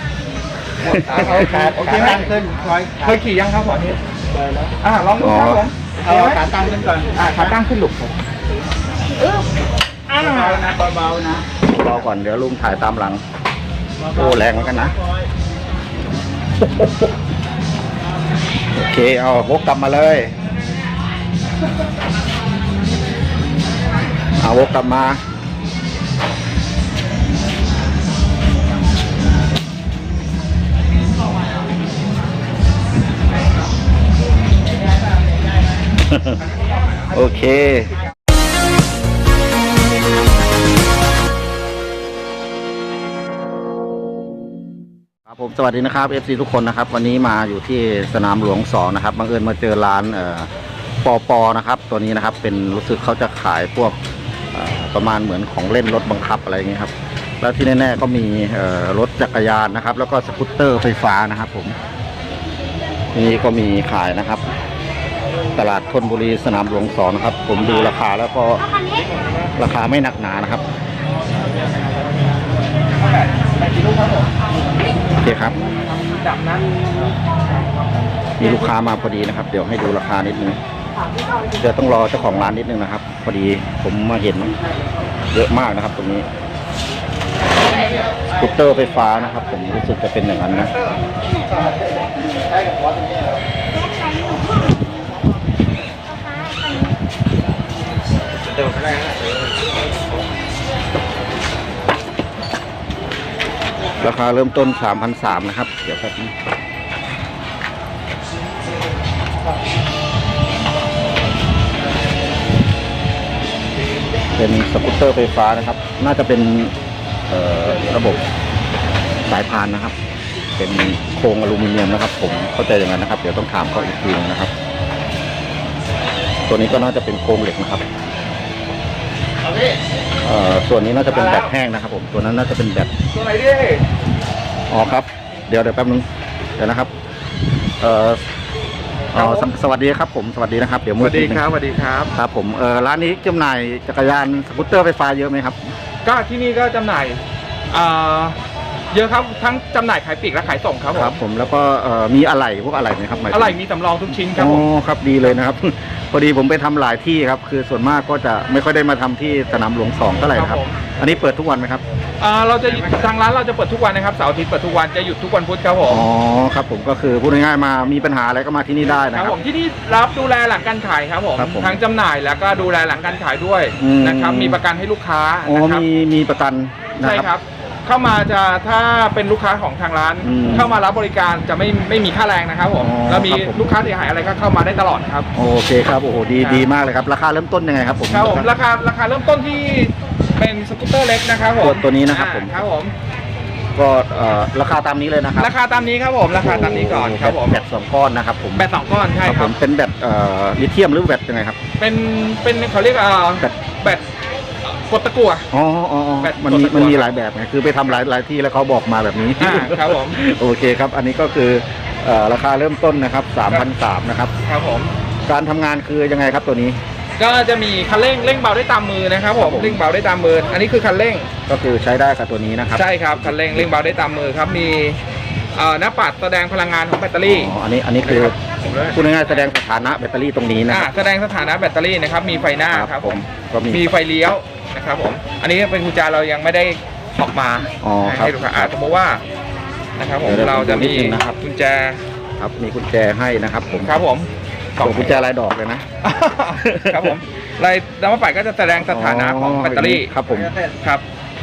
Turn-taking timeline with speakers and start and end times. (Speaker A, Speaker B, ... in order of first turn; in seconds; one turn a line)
Speaker A: 0.8-1.6
Speaker B: 0.9-2.4
Speaker C: 0.9-3.1
Speaker B: 3.0-4.0
Speaker C: 4.3-4.7
Speaker B: 4.8-6.5
Speaker A: 5.2-5.7
Speaker C: 6.1-7.2
Speaker B: 7.1-8.2
Speaker B: 10.1-10.8
Speaker C: 10.2-11.4
Speaker A: 11.6-13.2
Speaker A: 14.1-15.0
Speaker A: 16.6-16.9
Speaker A: 18.7-20.4
Speaker A: 24.4-25.2
Speaker A: 36.1-36.4
Speaker B: 36.6-37.1
Speaker A: 37.1-38.0
Speaker A: 45.3-50.5
Speaker A: 51.0-54.0
Speaker A: 54.5-61.8
Speaker A: 63.1-64.4
Speaker A: 65.6-68.8
Speaker A: 69.6-70.6
Speaker B: 72.9-74.3
Speaker A: 75.2-75.6
Speaker B: 75.8-76.8
Speaker A: 78.4-80.6
Speaker A: 81.6-84.5
Speaker A: 85.3-86.3
Speaker A: 88.4-90.7
Speaker A: 104.0-106.3
Speaker A: 114.4-116.7
Speaker A: 117.3-118.2
Speaker A: 119.3-120.0
Speaker A: 120.6-124.5
Speaker A: 126.5-127.8
Speaker A: 130.2-132.9
Speaker B: 133.1-133.9
Speaker A: 134.7-136.1
Speaker A: 136.6-136.9
Speaker A: 137.8-138.2
Speaker A: 139.1-141.5
Speaker B: 139.2-139.5
Speaker B: 141.0-142.1
Speaker A: 142.2-145.6
Speaker B: 146.0-148.4
Speaker B: 148.9-151.2
Speaker A: 150.9-153.6
Speaker B: 153.3-154.7
Speaker A: 154.3-161.8
Speaker B: 160.2-160.8
Speaker B: 162.2-166.1
Speaker A: 165.9-169.4
Speaker B: 169.1-175.8
Speaker A: 171.4-171.8
Speaker A: 173.8-174.6
Speaker A: 175.4-177.3
Speaker B: 177.0-185.3
Speaker A: 180.2-180.8
Speaker A: 182.8-183.6
Speaker A: 185.3-188.5
Speaker B: 186.4-186.7
Speaker B: 188.1-192.9
Speaker A: 191.6-192.6
Speaker A: 193.8-195.5
Speaker B: 195.4-197.7
Speaker A: 196.3-198.7
Speaker B: 198.6-199.5
Speaker A: 199.2-201.6
Speaker B: 201.8-204.1
Speaker B: 204.6-205.5
Speaker A: 205.5-214.3
Speaker B: 206.2-207.2
Speaker B: 209.4-210.2
Speaker B: 214.4-214.9
Speaker A: 215.3-216.8
Speaker B: 217.2-221.3
Speaker A: 219.4-219.8
Speaker A: 221.5-223.7
Speaker B: 222.7-225.0
Speaker B: 225.5-227.5
Speaker A: 227.2-230.9
Speaker B: 230.7-239.2
Speaker A: 232.7-233.9
Speaker A: 237.8-238.7
Speaker B: 240.0-242.0
Speaker A: 240.2-241.4
Speaker A: 242.4-243.9
Speaker B: 243.8-245.2
Speaker A: 244.8-245.8
Speaker B: 246.0-250.1
Speaker A: 246.6-247.2
Speaker A: 248.8-250.6